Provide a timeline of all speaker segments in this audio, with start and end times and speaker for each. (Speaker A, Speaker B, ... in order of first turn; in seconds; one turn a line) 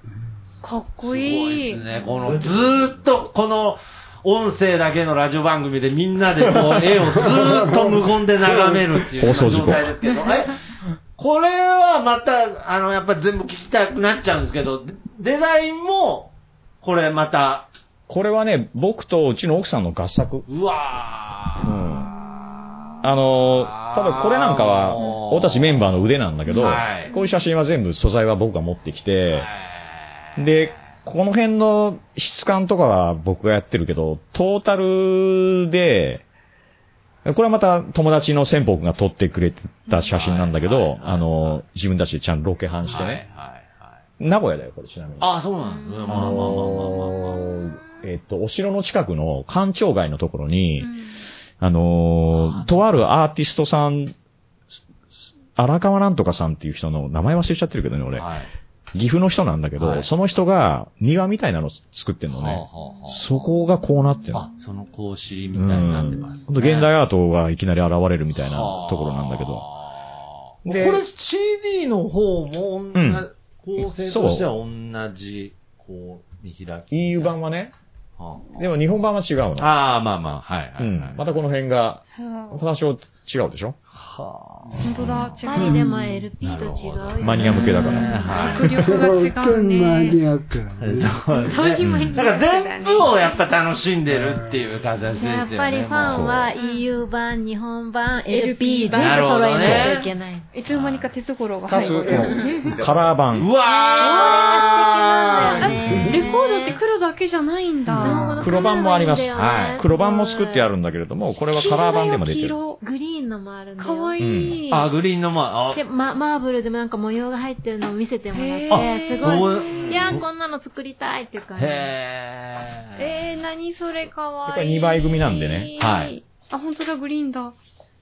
Speaker A: 0.6-1.8
Speaker B: 1.0-10.6
Speaker C: 9.0-10.0
Speaker B: 11.2-17.7
Speaker C: 18.1-20.5
Speaker B: 20.5-21.8
Speaker C: 21.6-22.1
Speaker C: 23.0-29.5
Speaker B: 23.5-27.1
Speaker B: 29.3-30.0
Speaker C: 30.4-36.2
Speaker C: 37.2-43.2
Speaker B: 40.1-41.6
Speaker B: 42.9-43.9
Speaker C: 44.2-45.3
Speaker B: 45.2-47.2
Speaker D: 45.6-46.4
Speaker C: 46.1-50.9
Speaker C: 51.6-54.1
Speaker B: 52.3-52.8
Speaker C: 55.6-58.3
Speaker B: 58.2-58.5
Speaker C: 58.9-64.5
Speaker B: 59.8-60.1
Speaker B: 62.3-63.2
Speaker B: 64.3-66.9
Speaker C: 65.5-69.7
Speaker B: 68.4-77.0
Speaker C: 70.7-71.0
Speaker C: 72.9-73.3
Speaker C: 74.0-74.5
Speaker C: 76.9-77.7
Speaker B: 78.2-78.6
Speaker C: 78.6-79.7
Speaker B: 79.6-81.2
Speaker C: 80.8-83.8
Speaker A: 82.2-82.6
Speaker B: 83.9-85.2
Speaker A: 84.8-86.1
Speaker C: 84.9-85.4
Speaker D: 85.4-88.4
Speaker B: 86.4-88.7
Speaker C: 87.2-88.5
Speaker A: 87.7-90.2
Speaker E: 88.7-91.2
Speaker B: 90.8-96.4
Speaker A: 91.3-93.3
Speaker C: 91.8-92.2
Speaker D: 95.2-100.5
Speaker C: 96.1-96.5
Speaker A: 96.6-96.8
Speaker A: 98.3-102.8
Speaker B: 98.9-100.0
Speaker B: 100.7-101.1
Speaker C: 101.7-103.5
Speaker D: 101.8-102.6
Speaker B: 103.3-106.1
Speaker D: 103.8-106.8
Speaker A: 104.0-104.6
Speaker A: 105.4-108.6
Speaker D: 108.0-110.7
Speaker C: 108.4-112.6
Speaker B: 109.3-109.8
Speaker A: 111.5-112.8
Speaker D: 112.8-114.2
Speaker A: 113.8-114.9
Speaker C: 114.2-114.6
Speaker B: 114.7-115.8
Speaker D: 115.7-121.9
Speaker A: 118.3-119.5
Speaker B: 118.7-120.3
Speaker B: 121.6-123.0
Speaker A: 123.0-127.6
Speaker C: 124.5-125.7
Speaker B: 125.8-126.2